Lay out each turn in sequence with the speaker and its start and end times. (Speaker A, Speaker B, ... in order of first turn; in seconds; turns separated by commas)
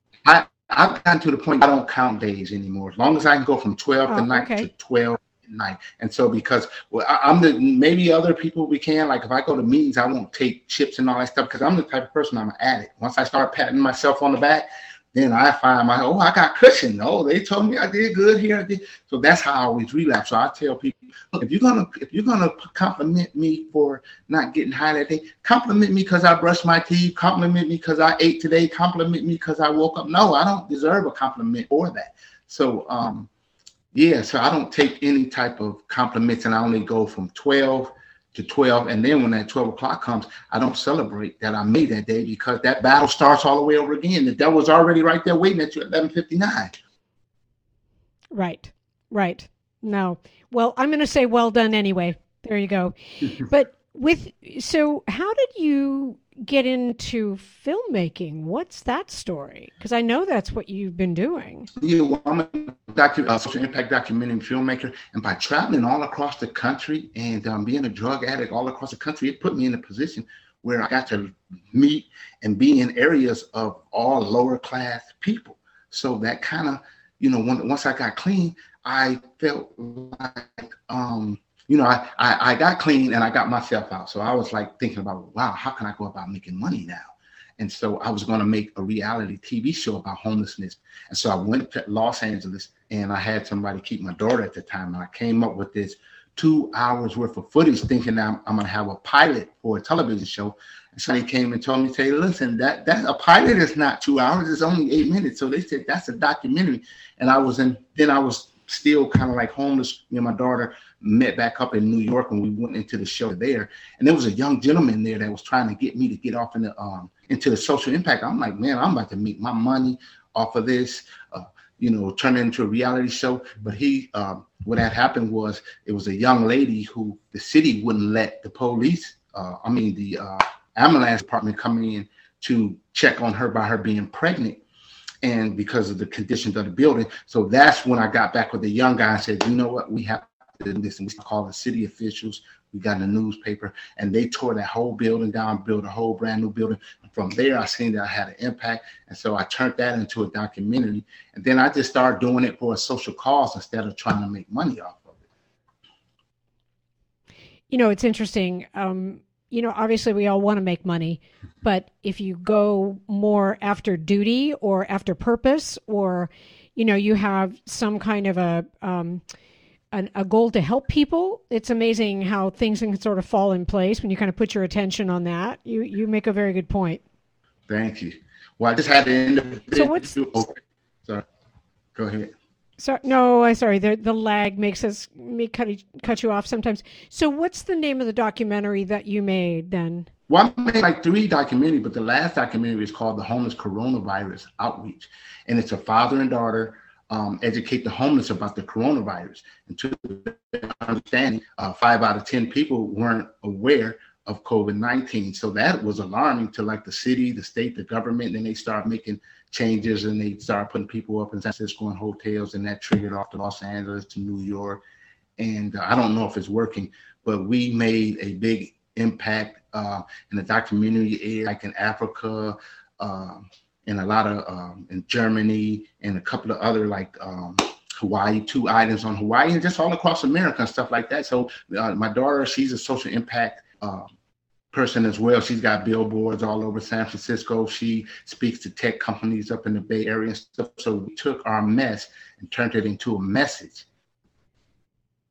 Speaker A: 0.2-33.3, Speaker B: 4.1-4.7, Speaker A: 33.9-46.8, Speaker B: 48.3-61.7, Speaker A: 61.8-134.6, Speaker A: 135.2-155.2, Speaker B: 157.7-169.2, Speaker B: 169.9-177.0, Speaker A: 177.7-181.2, Speaker B: 179.7-180.1, Speaker A: 181.9-182.3, Speaker B: 182.8-190.1, Speaker A: 190.3-214.8, Speaker A: 215.4-234.1, Speaker A: 234.7-243.9